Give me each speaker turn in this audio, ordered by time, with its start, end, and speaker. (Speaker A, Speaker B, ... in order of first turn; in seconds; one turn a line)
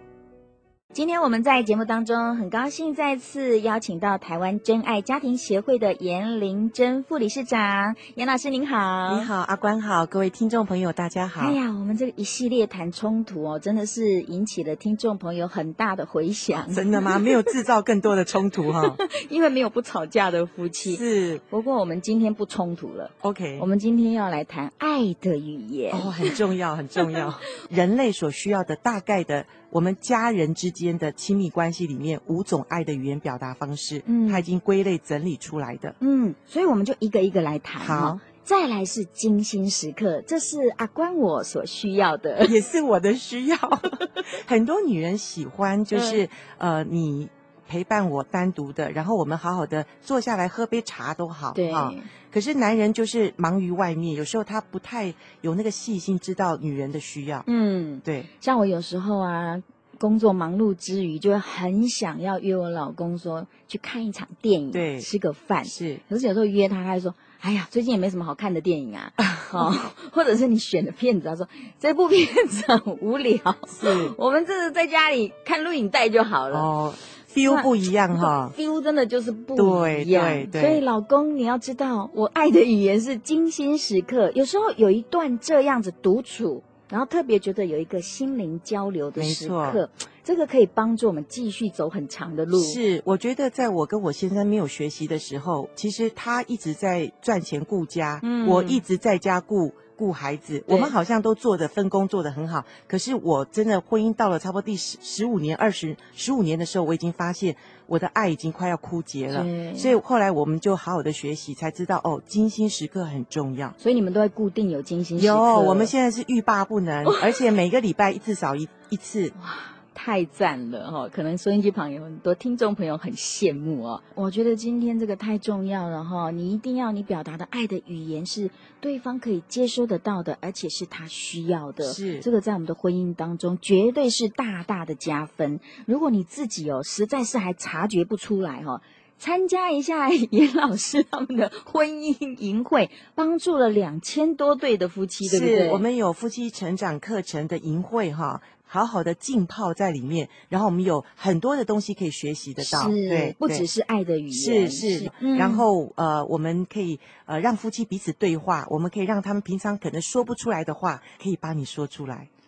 Speaker A: 0.9-9.3
Speaker B: 9.1-11.6
Speaker A: 11.4-17.3
Speaker B: 16.7-19.0
Speaker A: 18.9-26.4
Speaker B: 20.9-21.4
Speaker B: 23.2-23.7
Speaker B: 25.9-36.0
Speaker A: 34.0-34.5
Speaker A: 36.0-42.5
Speaker B: 37.8-38.2
Speaker B: 42.4-57.4
Speaker A: 45.9-46.2
Speaker A: 51.5-52.1
Speaker A: 57.4-76.7
Speaker B: 58.0-58.3
Speaker B: 64.7-65.1
Speaker B: 65.6-66.0
Speaker B: 69.2-69.7
Speaker B: 73.7-74.1
Speaker B: 76.5-78.5
Speaker A: 77.4-92.8
Speaker B: 79.5-80.8
Speaker B: 89.1-89.8
Speaker B: 92.5-113.8
Speaker A: 98.2-98.8
Speaker A: 100.7-100.9
Speaker A: 109.3-110.0
Speaker A: 113.8-115.9
Speaker B: 115.2-119.3
Speaker A: 117.0-117.4
Speaker A: 119.3-145.8
Speaker B: 131.8-132.2
Speaker B: 145.2-153.7
Speaker A: 152.6-155.7
Speaker B: 154.3-162.3